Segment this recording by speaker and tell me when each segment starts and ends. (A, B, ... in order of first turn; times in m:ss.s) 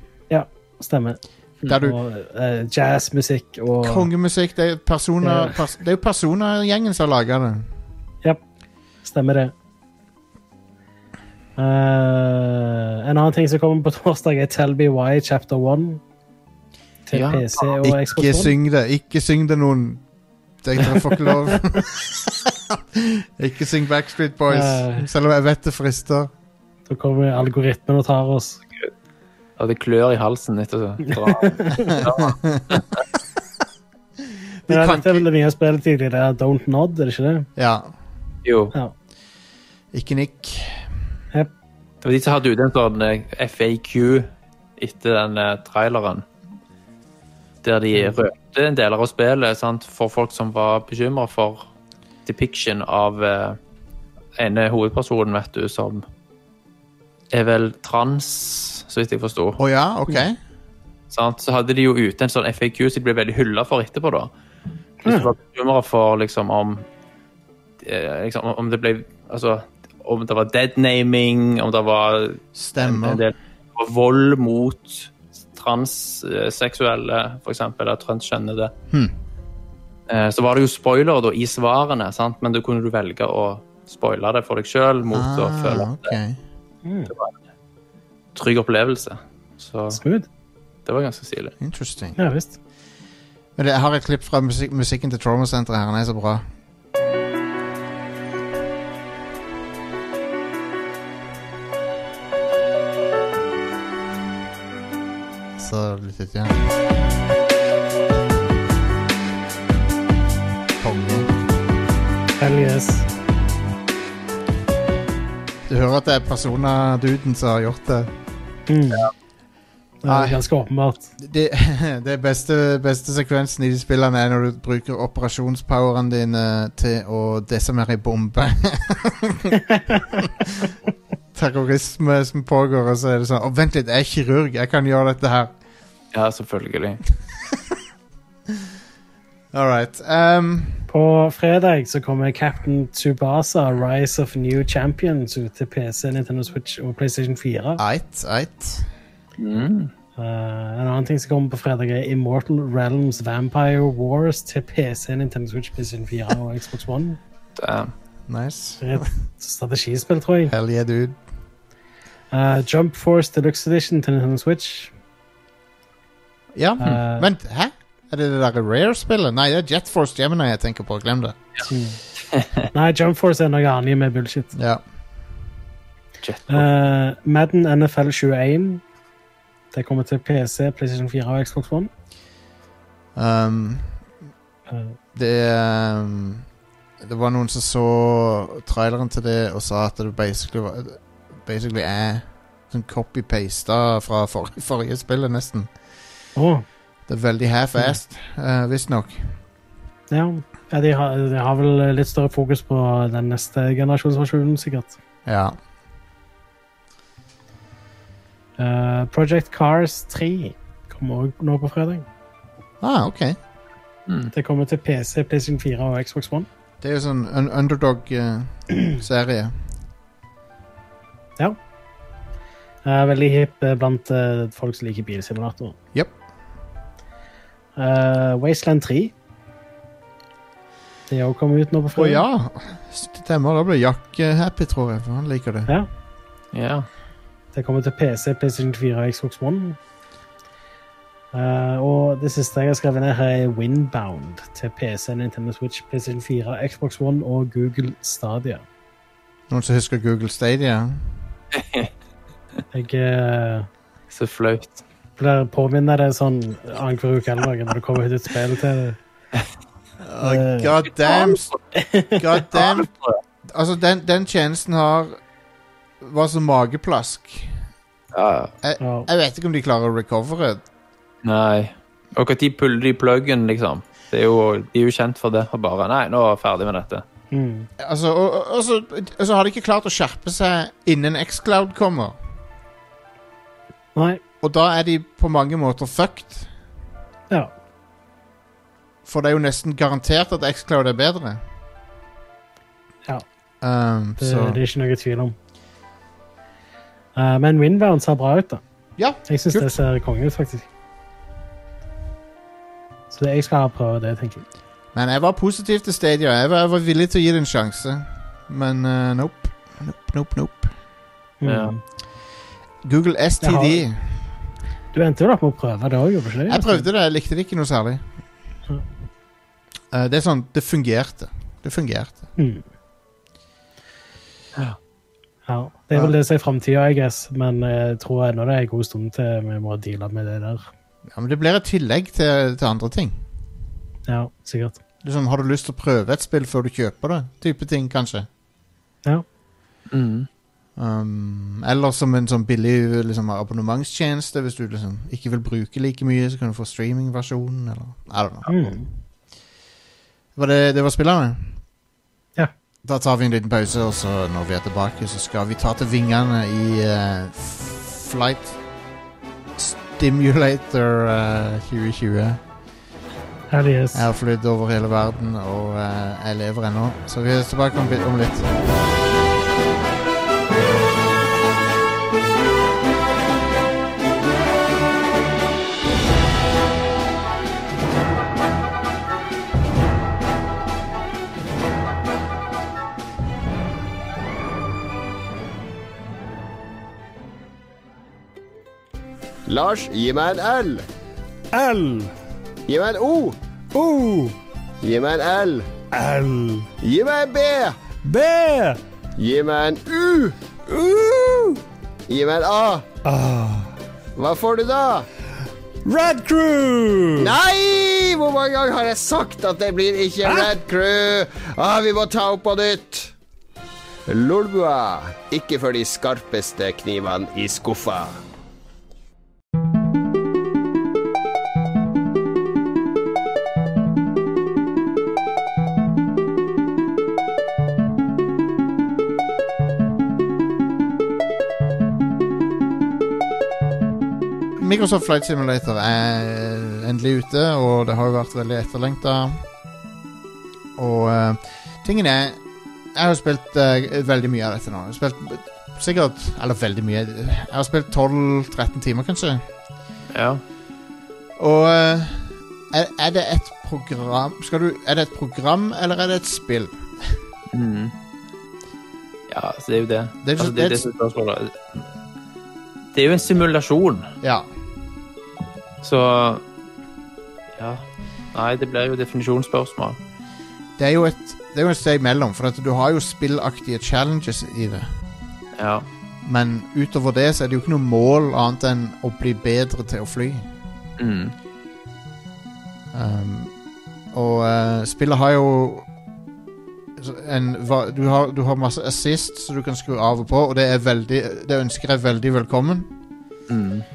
0:00.3-0:04.1 A
0:01.6-0:02.0 B
0:03.8-0:07.7 B
0:05.2-0:05.6 A
0:09.0-0:09.5 A
0:11.6-0:16.0 A
0:17.1-0:18.5 A
0:17.1-0:17.6 C
0:17.8-0:20.0 B
0:20.6-0:26.3 B
0:24.5-0:25.1 A
0:26.9-0:28.6 A
0:29.6-0:33.0 C
0:31.1-0:32.0 A
0:31.9-0:32.8 B
0:34.7-0:35.2 B
0:34.7-0:37.5 A
0:37.6-0:37.9 B
0:38.4-0:38.7 C
0:39.9-0:40.9 B
0:42.0-0:46.2 C
0:47.6-0:51.6 C
0:52.3-0:53.6 C
0:54.4-0:56.0 C
0:57.3-0:59.6 C
0:59.6-1:00.4 B
1:01.1-1:04.3 C
1:05.0-1:05.3 A
1:05.0-1:06.8 C
1:07.8-1:18.7 C
1:12.6-1:13.2 B
1:20.1-1:26.1 C
1:25.1-1:26.4 B
1:26.8-1:27.1 A
1:28.4-1:30.0 C
1:29.9-1:30.3 A
1:30.9-1:31.5 C
1:31.6-1:32.2 B
1:32.2-1:32.6 A
1:33.6-1:36.4 B
1:45.6-1:46.7 B
1:50.8-1:51.3 B
1:52.4-1:53.1 A
1:55.7-1:58.1 B
1:58.7-1:59.1 A
2:00.0-2:01.1 A
2:00.1-2:00.4 B
2:01.2-2:10.8 B
2:11.3-2:15.5 B
2:16.1-2:17.0 C
2:19.5-2:20.9 B
2:20.9-2:27.8 A
2:27.8-2:28.9 B
2:29.4-2:29.9 C
2:30.2-2:37.2 A
2:37.6-2:37.9 C
2:38.3-2:39.1 B
2:38.8-2:40.5 A
2:40.5-2:41.2 B
2:42.3-2:44.9 A
2:46.5-2:51.4 B
2:46.8-2:47.2 A
2:51.7-2:52.0 A
2:52.7-2:54.5 A
2:54.5-2:54.8 B
2:56.2-2:56.7 C
2:56.5-2:58.8 A
2:59.7-3:01.9 A
3:03.2-3:03.9 B
3:04.7-3:05.0 A
3:05.1-3:06.4 B
3:07.0-3:15.7 B
3:16.4-3:16.6 A
3:17.1-3:19.4 B
3:20.1-3:25.0 A
3:25.3-3:25.6 B
3:28.6-3:32.1 A
3:32.8-3:33.4 B
3:34.3-3:36.5 A
3:36.8-3:39.5 B
3:42.8-3:45.8 A
3:47.8-3:49.1 A
3:51.1-3:52.2 A
3:52.0-3:55.7 B
3:56.5-3:56.9 C
3:57.5-3:59.8 A
4:01.3-4:08.6 A
4:09.5-4:11.0 B
4:11.5-4:11.9 C
4:12.7-4:13.7 A
4:14.1-4:14.8 C
4:15.2-4:19.0 A
4:20.0-4:21.5 B
4:20.2-4:20.7 A
4:21.1-4:21.4 C
4:21.8-4:22.2 A
4:22.2-4:22.9 B
4:22.5-4:23.2 C
4:23.5-4:25.2 B
4:26.0-4:27.6 B
4:28.1-4:28.5 C
4:28.6-4:30.6 B
4:28.8-4:29.1 A
4:31.2-4:37.0 C
4:37.3-4:37.7 A
4:37.8-4:42.2 B
4:44.0-4:44.2 A
4:44.4-4:46.5 B
4:49.0-4:51.4 B
4:53.6-4:54.6 B
4:54.2-4:55.4 A
4:57.2-4:58.6 A
4:59.0-4:59.8 B
4:59.3-5:00.7 A
5:03.1-5:04.4 A
5:04.9-5:10.7 B
5:11.4-5:11.8 A
5:11.5-5:11.7 C
5:12.8-5:14.1 B
5:13.4-5:13.8 A
5:14.9-5:16.9 A
5:16.5-5:18.0 B
5:19.9-5:22.3 B
5:22.4-5:22.6 A
5:25.5-5:30.7 A
5:31.1-5:33.2 B
5:34.1-5:34.8 A
5:35.0-5:38.3 B
5:39.9-5:40.3 C
5:40.8-5:48.5 B
5:48.5-5:48.9 A
5:50.4-5:51.5 B
5:52.8-5:58.6 B
5:59.6-6:02.4 B
6:03.5-6:04.1 A
6:03.9-6:08.5 B
6:29.5-6:30.8 D
6:31.5-6:32.1 E
6:32.7-6:33.4 D
6:33.7-6:34.4 E
6:34.8-6:35.7 D
6:35.9-6:36.7 E
6:36.8-6:37.8 D
6:38.0-6:38.8 E
6:39.2-6:42.9 D
6:43.0-6:43.7 E
6:44.2-6:45.1 D
6:45.8-6:47.4 E
6:47.2-6:53.1 D
6:54.1-6:58.2 D
7:14.6-7:19.4 B
7:20.8-7:22.4 B
7:23.0-7:29.4 B
7:30.1-7:30.4 C
7:31.4-7:37.2 B
7:37.5-7:37.9 C
7:39.3-7:41.9 C
7:40.2-7:40.8 B
7:42.9-7:44.1 C
7:44.2-7:44.5 B
7:45.8-7:46.4 C
7:47.6-7:50.0 C
7:50.8-7:54.9 B
7:55.6-7:55.9 C
7:56.2-8:00.5 B
8:01.0-8:01.4 C
8:02.9-8:03.5 B
8:04.1-8:05.9 B
8:07.0-8:12.9 B
8:13.5-8:13.9 C